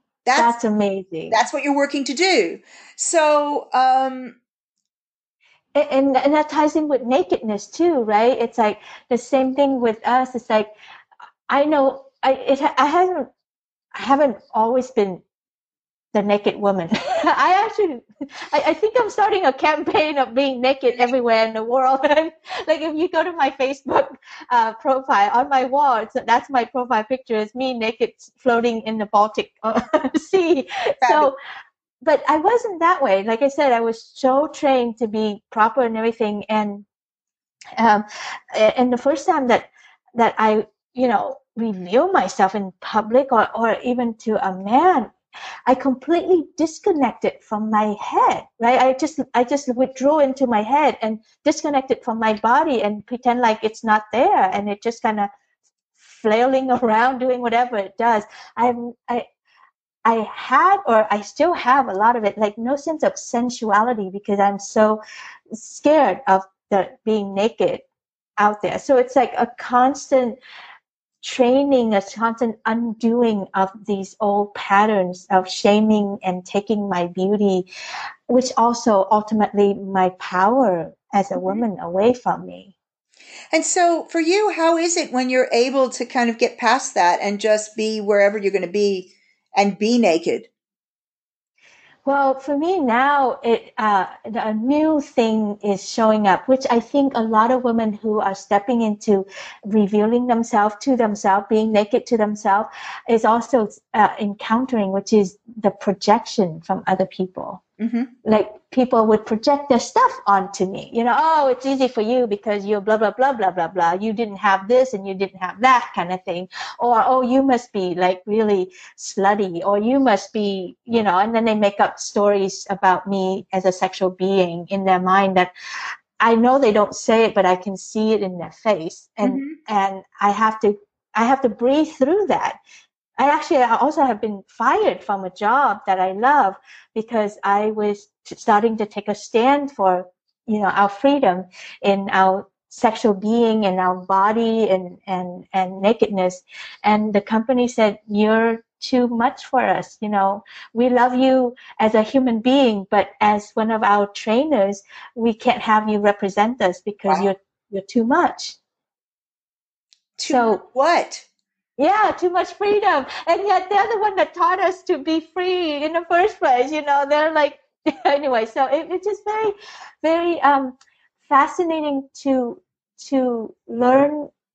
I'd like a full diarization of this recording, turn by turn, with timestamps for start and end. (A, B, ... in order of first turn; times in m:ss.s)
0:00.2-0:00.5 A
0:00.4-0:01.4 B
0:01.3-0:04.4 A
0:05.7-0:10.7 B
0:11.5-0:13.3 B
0:13.9-0:15.2 B
0:16.1-0:31.3 B
0:31.0-0:31.3 A
0:32.0-0:36.8 B
0:37.8-0:45.1 B
0:45.7-0:55.3 B
0:56.0-0:59.2 B
1:00.0-1:05.0 B
1:05.5-1:07.8 B
1:08.4-1:10.4 B
1:11.2-1:17.6 B
1:18.3-1:22.7 B
1:23.5-1:30.5 A
1:32.0-1:47.6 B
1:47.8-1:48.1 A
1:48.2-2:05.5 B
2:06.2-2:12.6 B
2:09.2-2:09.6 A
2:13.2-2:38.6 B
2:40.2-2:41.2 A
2:40.3-2:40.6 B
2:41.8-2:54.3 B